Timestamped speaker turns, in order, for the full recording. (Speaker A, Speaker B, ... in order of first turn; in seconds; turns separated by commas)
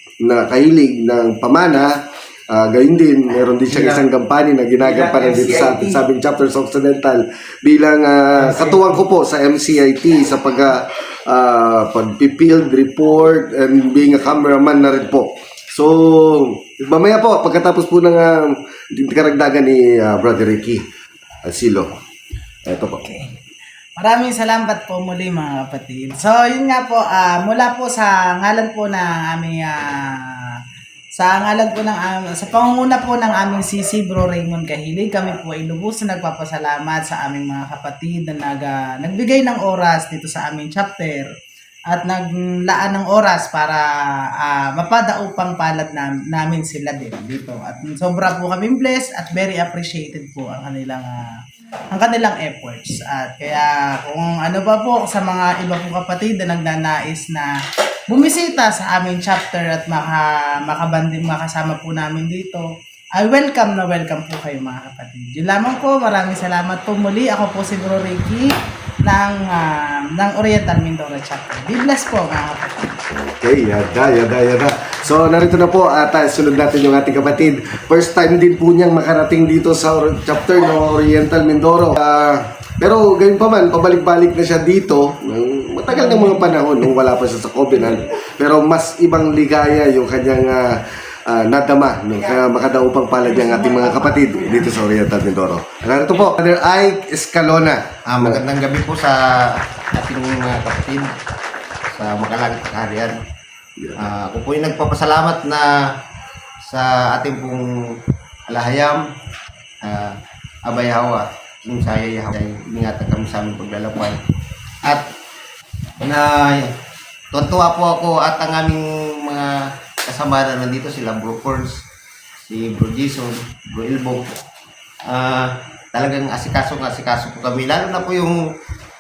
Speaker A: 0.2-20.8, Speaker A: 21.4-21.9, Speaker A: 22.7-23.2, Speaker B: 24.0-30.1, Speaker B: 31.2-41.3, Speaker B: 41.9-43.9, Speaker B: 44.4-51.2, Speaker B: 51.9-57.5, Speaker B: 58.1-68.5, Speaker B: 69.0-72.9, Speaker A: 73.1-98.4, Speaker C: 98.1-101.2, Speaker C: 102.0-103.2, Speaker A: 103.8-104.1, Speaker C: 104.0-105.9, Speaker C: 106.7-107.7, Speaker C: 108.5-109.0, Speaker C: 109.8-114.2, Speaker C: 116.0-116.7, Speaker C: 117.3-121.8, Speaker C: 122.5-124.3, Speaker C: 125.1-128.4